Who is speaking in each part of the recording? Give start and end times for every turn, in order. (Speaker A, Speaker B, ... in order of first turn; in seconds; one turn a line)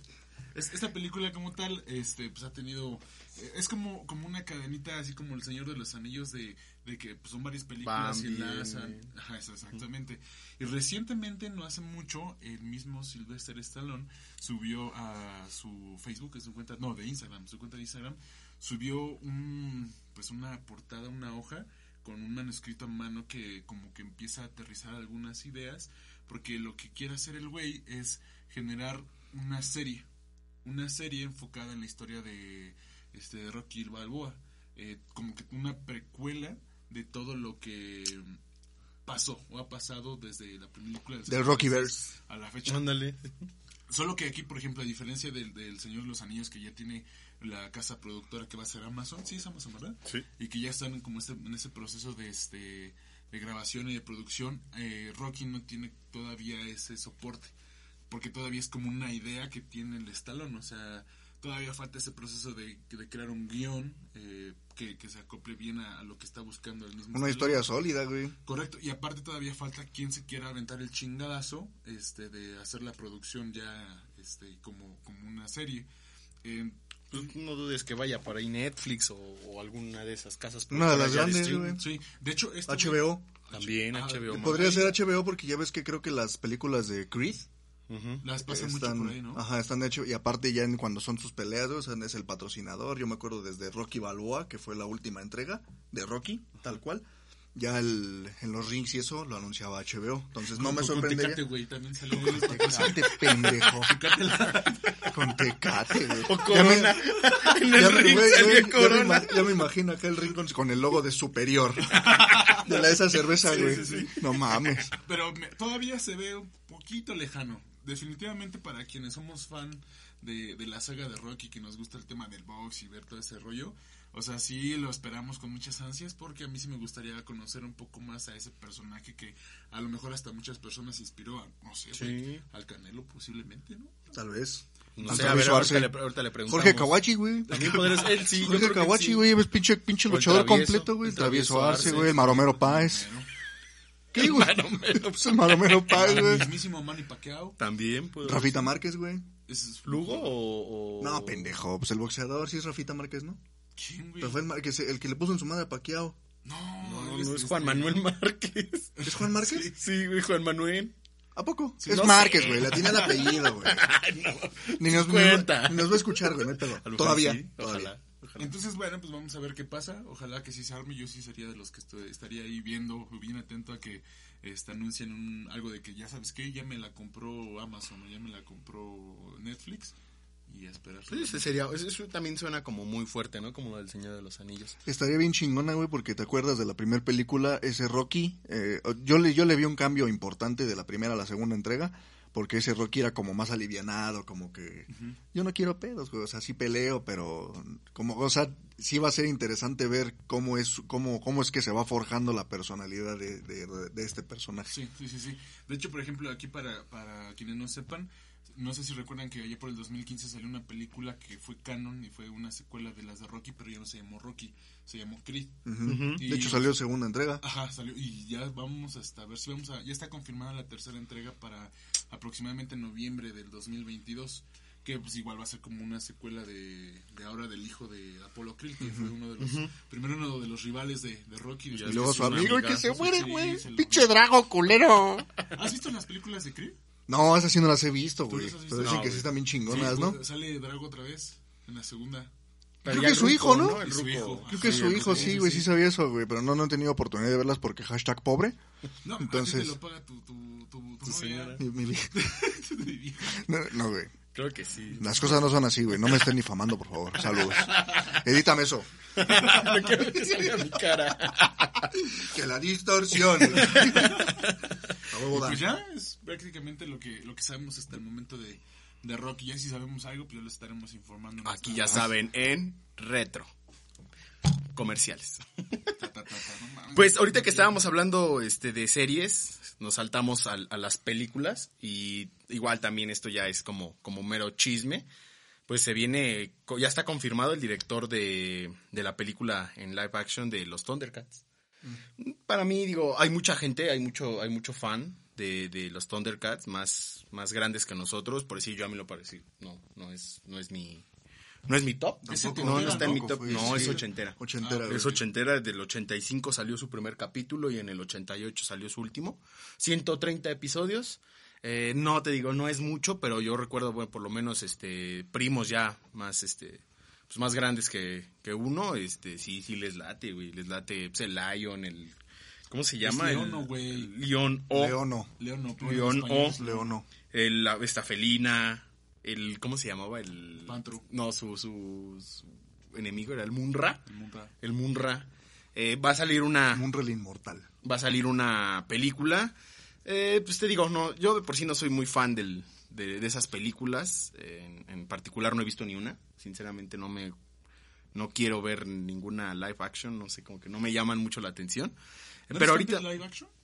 Speaker A: 0.5-30.1
Speaker B: 7.8-9.1
Speaker A: 30.6-38.4
Speaker A: 39.1-43.0
Speaker C: 41.3-42.1
Speaker B: 42.7-43.5
Speaker A: 43.9-57.5
Speaker A: 58.1-67.7
Speaker C: 67.1-68.4
Speaker A: 68.5-75.9
Speaker A: 76.4-77.3
Speaker B: 77.1-81.8
Speaker C: 80.7-81.8
Speaker A: 81.2-85.0
Speaker C: 82.7-83.2
Speaker B: 83.5-84.9
Speaker C: 84.3-87.5
Speaker B: 87.9-88.2
Speaker A: 88.2-89.4
Speaker C: 88.4-101.5
Speaker A: 100.5-105.2
Speaker C: 102.1-104.0
Speaker C: 105.0-114.9
Speaker B: 106.2-109.7
Speaker A: 111.9-114.2
Speaker B: 113.4-114.1
Speaker A: 114.9-134.0
Speaker B: 131.9-132.4
Speaker C: 134.1-143.1
Speaker B: 135.0-139.3
Speaker A: 135.0-135.7
Speaker A: 137.5-138.1
Speaker B: 140.1-142.1
Speaker A: 141.7-143.3
Speaker C: 144.1-146.5
Speaker B: 144.2-146.4
Speaker A: 145.9-147.6
Speaker B: 147.6-148.7
Speaker C: 148.2-149.3
Speaker A: 149.5-150.4
Speaker B: 149.9-151.5
Speaker C: 151.0-153.4
Speaker A: 153.8-154.4
Speaker C: 154.2-156.2
Speaker A: 156.4-158.0
Speaker B: 156.8-158.9
Speaker A: 159.0-159.8
Speaker C: 159.0-159.8
Speaker B: 159.7-160.9
Speaker C: 161.4-163.9
Speaker A: 161.8-163.1
Speaker B: 161.9-168.5
Speaker C: 164.8-167.9
Speaker A: 168.4-179.9
Speaker A: 180.5-181.5
Speaker B: 181.1-184.8
Speaker C: 184.9-204.8
Speaker A: 194.9-195.2
Speaker A: 204.7-215.6
Speaker C: 215.7-217.4
Speaker B: 215.8-216.2
Speaker A: 216.2-216.7
Speaker A: 217.4-234.1
Speaker C: 228.8-229.1
Speaker B: 229.4-229.7
Speaker B: 231.7-232.9
Speaker C: 231.8-235.3
Speaker A: 235.5-236.8
Speaker C: 237.1-240.2
Speaker A: 238.3-242.3
Speaker B: 238.8-239.3
Speaker B: 242.8-245.4
Speaker C: 242.8-243.8
Speaker A: 243.6-245.7
Speaker C: 244.5-248.6
Speaker A: 249.0-253.5
Speaker C: 249.2-249.8
Speaker B: 251.0-251.6
Speaker C: 251.6-252.2
Speaker C: 253.3-254.1
Speaker B: 254.3-255.4
Speaker C: 255.0-258.9
Speaker B: 257.7-258.2
Speaker B: 259.2-261.9
Speaker C: 262.0-264.3
Speaker B: 263.5-264.6
Speaker A: 263.9-264.3
Speaker C: 265.1-265.6
Speaker A: 265.3-272.1
Speaker B: 271.4-273.5
Speaker B: 274.7-275.9
Speaker A: 275.9-277.9
Speaker B: 276.9-285.1
Speaker B: 285.7-291.4
Speaker B: 292.2-301.1
Speaker B: 301.7-322.2
Speaker C: 302.2-305.2
Speaker A: 302.3-305.2
Speaker B: 322.7-325.0
Speaker A: 323.0-324.1
Speaker C: 324.7-325.3
Speaker A: 325.4-326.9
Speaker B: 325.8-326.6
Speaker C: 326.6-327.1
Speaker B: 327.3-334.0
Speaker A: 330.7-331.1
Speaker A: 334.1-334.5
Speaker B: 334.6-336.9
Speaker C: 336.7-337.7
Speaker B: 337.8-347.4
Speaker B: 348.1-352.0
Speaker B: 352.5-353.2
Speaker A: 352.5-353.5